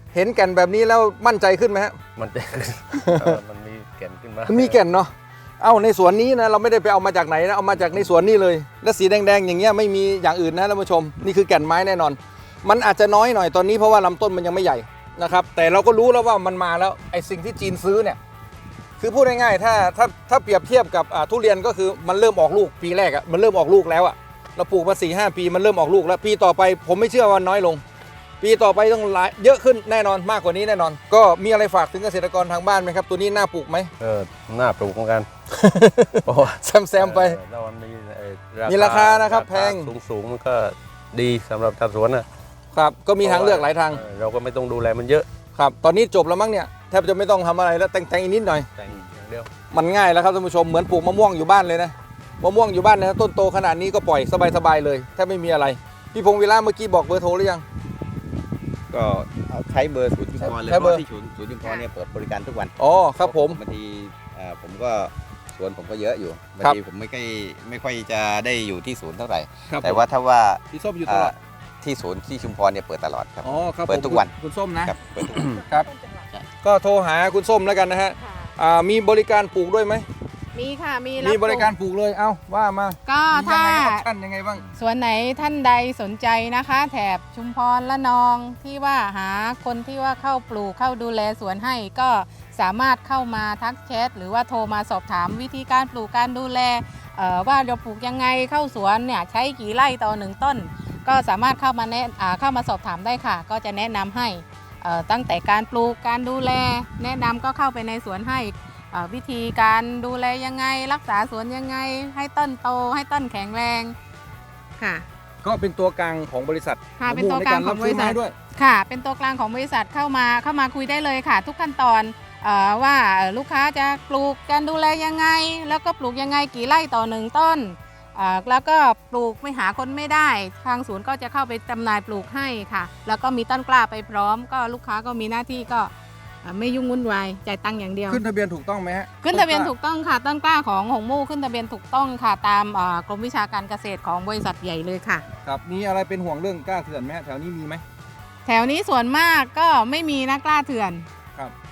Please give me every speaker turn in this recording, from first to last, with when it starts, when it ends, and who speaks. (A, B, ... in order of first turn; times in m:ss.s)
0:00.1-0:02.0 A
0:02.2-0:04.8 B
0:02.9-0:03.3 A
0:04.5-0:18.2 A
0:19.0-0:27.8 A
0:28.4-0:33.9 A
0:34.0-0:35.3 B
0:35.5-0:37.4 A
0:36.2-0:42.3 B
0:38.6-0:39.9 A
0:42.7-0:44.0 A
0:43.2-0:45.3 B
0:45.5-0:48.7 A
0:48.7-0:49.5 B
0:49.7-0:57.6 A
0:58.9-1:14.3 C
1:00.4-1:01.0 A
1:02.8-1:03.6 A
1:09.7-1:10.0 A
1:10.7-1:11.3 A
1:13.4-1:15.9 A
1:14.8-1:15.6 C
1:16.6-1:20.0 A
1:18.2-1:18.5 D
1:20.5-1:21.7 D
1:21.2-1:24.7 A
1:23.1-1:24.0 D
1:24.7-1:54.0 D
1:54.8-1:55.0 D
1:55.4-1:58.3 A
1:57.0-2:15.9 D
2:16.4-2:18.2 D
2:18.0-2:19.7 A
2:19.2-2:25.2 D
2:25.4-2:27.8 A
2:28.4-2:31.1 D